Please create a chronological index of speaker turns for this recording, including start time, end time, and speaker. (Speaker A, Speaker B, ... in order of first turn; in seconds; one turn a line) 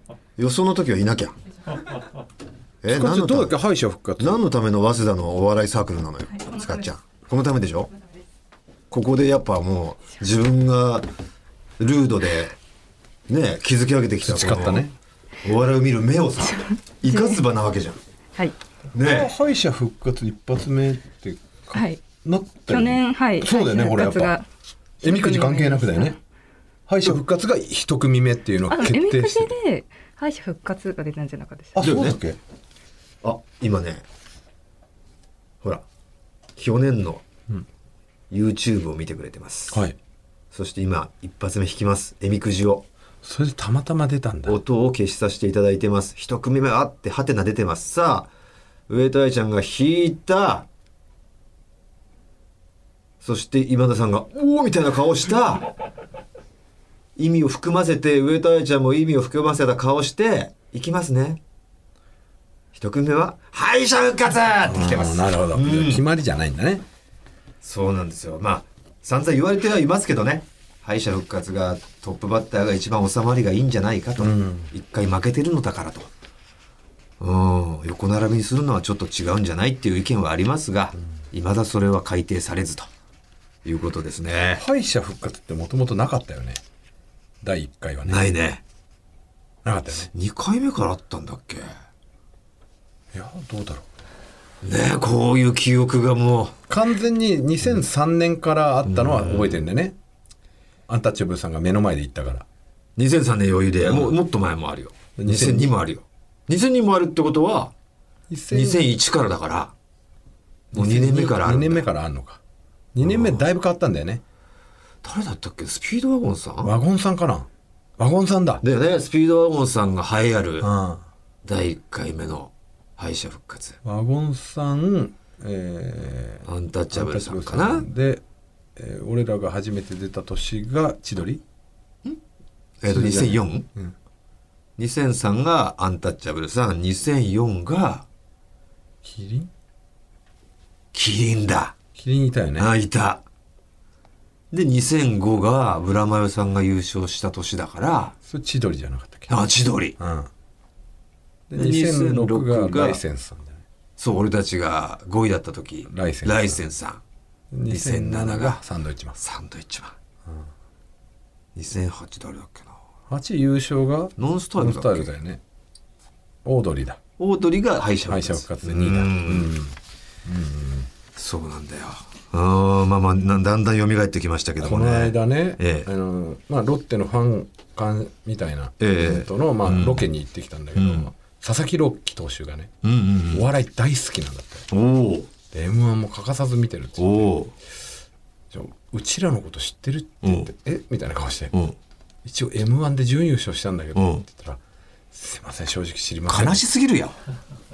Speaker A: 0.4-1.4
Speaker A: 2.8-3.5
Speaker B: 2.9-4.4
Speaker A: 4.2-7.9
Speaker A: 8.9-11.1
Speaker A: 11.8-12.6
Speaker A: 13.3-14.8
Speaker B: 14.2-14.9
Speaker A: 15.4-18.0
Speaker C: 17.1-17.4
Speaker A: 18.9-19.3
Speaker B: 19.0-24.4
Speaker C: 21.7-22.0
Speaker C: 22.6-24.5
Speaker C: 25.0-26.2
Speaker B: 25.0-26.2
Speaker B: 26.9-29.6
Speaker C: 28.7-31.8
Speaker B: 31.8-32.4
Speaker A: 31.8-32.2
Speaker A: 33.2-34.0
Speaker A: 36.6-37.2
Speaker A: 38.3-39.8
Speaker B: 39.7-40.0
Speaker A: 40.5-42.9
Speaker B: 43.2-44.6
Speaker A: 44.5-48.3
Speaker A: 48.9-50.7
Speaker A: 53.2-55.7
Speaker A: 57.2-61.4
Speaker A: 62.7-66.0
Speaker B: 64.7-66.8
Speaker A: 67.6-76.1
Speaker B: 74.2-74.7
Speaker A: 77.2-82.9
Speaker A: 83.7-84.6
Speaker B: 84.5-86.6
Speaker B: 87.4-88.3
Speaker A: 88.1-88.6
Speaker B: 89.6-90.1
Speaker A: 90.1-91.7
Speaker B: 93.1-93.9
Speaker A: 94.6-96.6
Speaker B: 96.7-100.0
Speaker A: 98.8-99.6
Speaker B: 100.9-102.5
Speaker A: 103.0-107.7
Speaker B: 103.8-104.2
Speaker B: 105.2-105.8
Speaker B: 108.3-108.9
Speaker A: 108.5-109.7
Speaker B: 110.7-112.4
Speaker A: 110.7-111.9
Speaker B: 112.9-114.2
Speaker A: 113.0-113.4
Speaker A: 115.0-116.7
Speaker B: 116.6-118.6
Speaker A: 118.6-120.7
Speaker B: 120.6-121.1
Speaker A: 121.5-123.8
Speaker B: 123.8-128.2
Speaker A: 126.5-127.9
Speaker B: 128.8-131.4
Speaker A: 132.8-133.7
Speaker B: 132.9-134.0
Speaker A: 134.8-138.1
Speaker B: 139.0-139.5
Speaker A: 140.9-141.8
Speaker B: 141.9-142.7
Speaker A: 142.6-143.2
Speaker A: 144.5-148.2
Speaker B: 148.2-149.3
Speaker A: 149.3-150.0
Speaker B: 150.0-150.3
Speaker B: 151.5-153.6
Speaker A: 151.6-153.0
Speaker A: 154.0-157.0
Speaker B: 155.9-156.6
Speaker B: 157.5-159.2
Speaker A: 157.7-158.6
Speaker A: 159.2-160.0
Speaker A: 161.6-162.8
Speaker B: 163.1-165.4
Speaker A: 164.2-165.1
Speaker B: 166.4-167.0
Speaker A: 167.2-169.5
Speaker B: 168.1-170.9
Speaker A: 171.2-175.9
Speaker B: 174.6-182.7
Speaker A: 178.8-180.1
Speaker A: 180.8-181.1
Speaker A: 182.8-183.5
Speaker B: 183.3-184.7
Speaker A: 184.7-185.3
Speaker B: 185.5-187.3
Speaker A: 187.0-187.5
Speaker B: 188.5-191.5
Speaker A: 190.2-190.5
Speaker B: 192.2-194.6
Speaker A: 194.0-194.2
Speaker B: 195.1-196.6
Speaker A: 196.3-197.2